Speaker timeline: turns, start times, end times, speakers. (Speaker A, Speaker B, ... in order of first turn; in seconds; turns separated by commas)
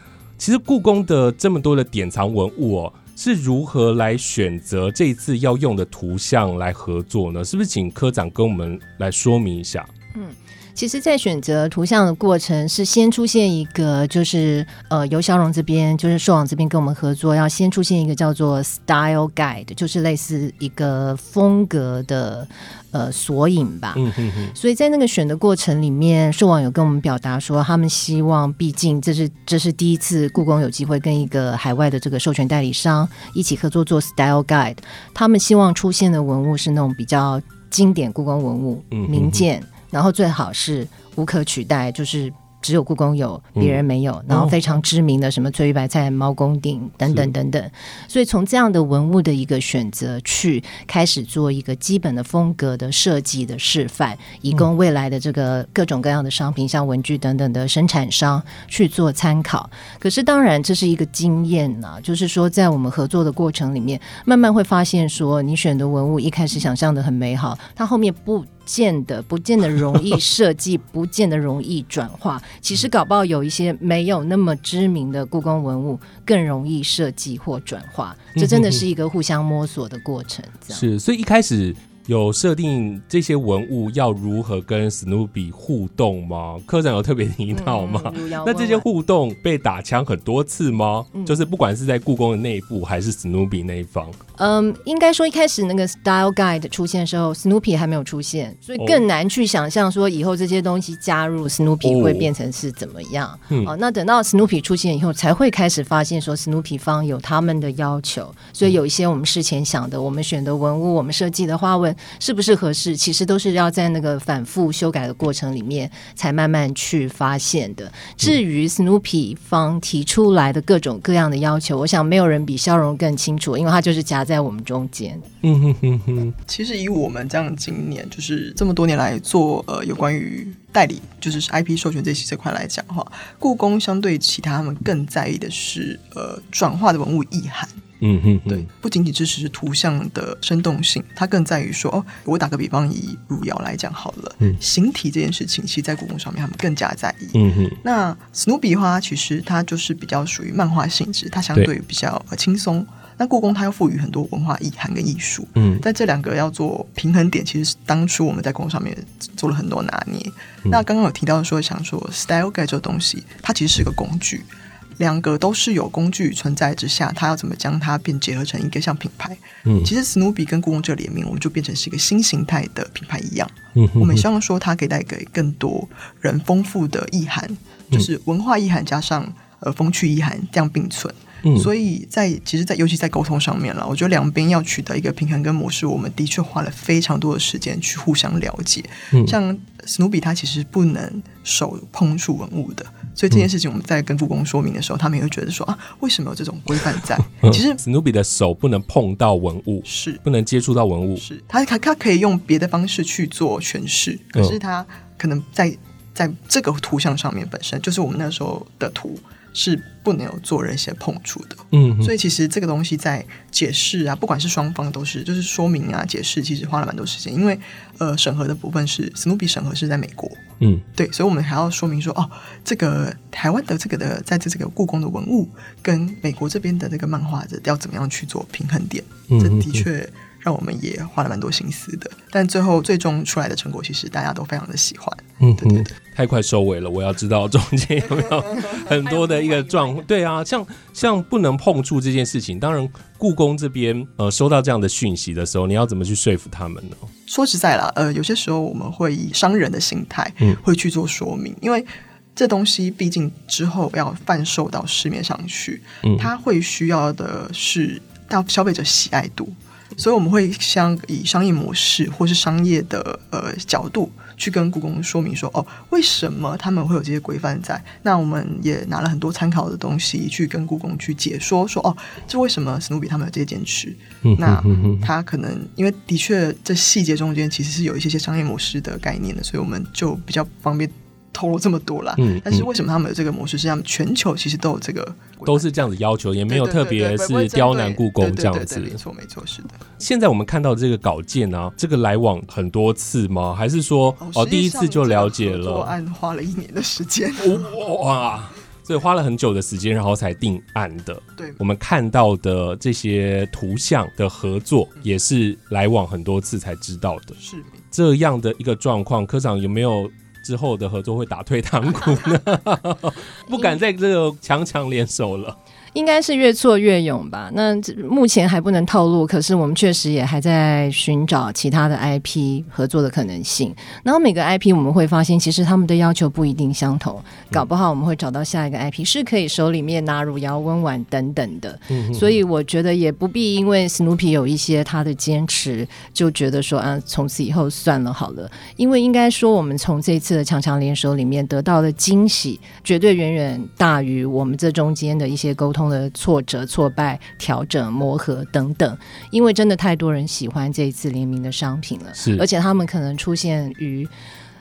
Speaker A: 0.4-9.9, Speaker B: 10.1-80.8, Speaker A: 24.0-24.6, Speaker A: 38.9-39.5, Speaker A: 43.6-44.6, Speaker A: 78.4-78.8, Speaker A: 80.7-94.2, Speaker B: 87.5-88.9, Speaker B: 94.4-125.3, Speaker A: 101.8-102.3, Speaker A: 125.4-126.3, Speaker C: 126.5-137.8, Speaker A: 138.0-138.7, Speaker C: 138.5-164.5, Speaker A: 147.3-147.8, Speaker A: 155.6-155.8, Speaker C: 165.0-197.8, Speaker A: 169.7-169.9, Speaker A: 173.8-174.2, Speaker A: 181.4-181.7, Speaker A: 197.4-201.2, Speaker C: 199.9-200.2, Speaker C: 201.2-220.4, Speaker A: 211.7-212.1, Speaker C: 221.0-235.9, Speaker A: 229.3-229.9, Speaker A: 235.4-247.1, Speaker C: 238.2-240.0, Speaker C: 247.3-285.7, Speaker A: 256.0-256.3, Speaker A: 274.2-275.1, Speaker A: 282.2-282.7, Speaker A: 285.5-289.0, Speaker C: 286.5-289.8, Speaker A: 290.0-295.9, Speaker C: 294.2-297.7, Speaker A: 297.4-307.4, Speaker C: 307.4-307.8, Speaker A: 307.9-315.6, Speaker B: 315.9-354.1, Speaker A: 331.9-332.4, Speaker A: 352.2-352.4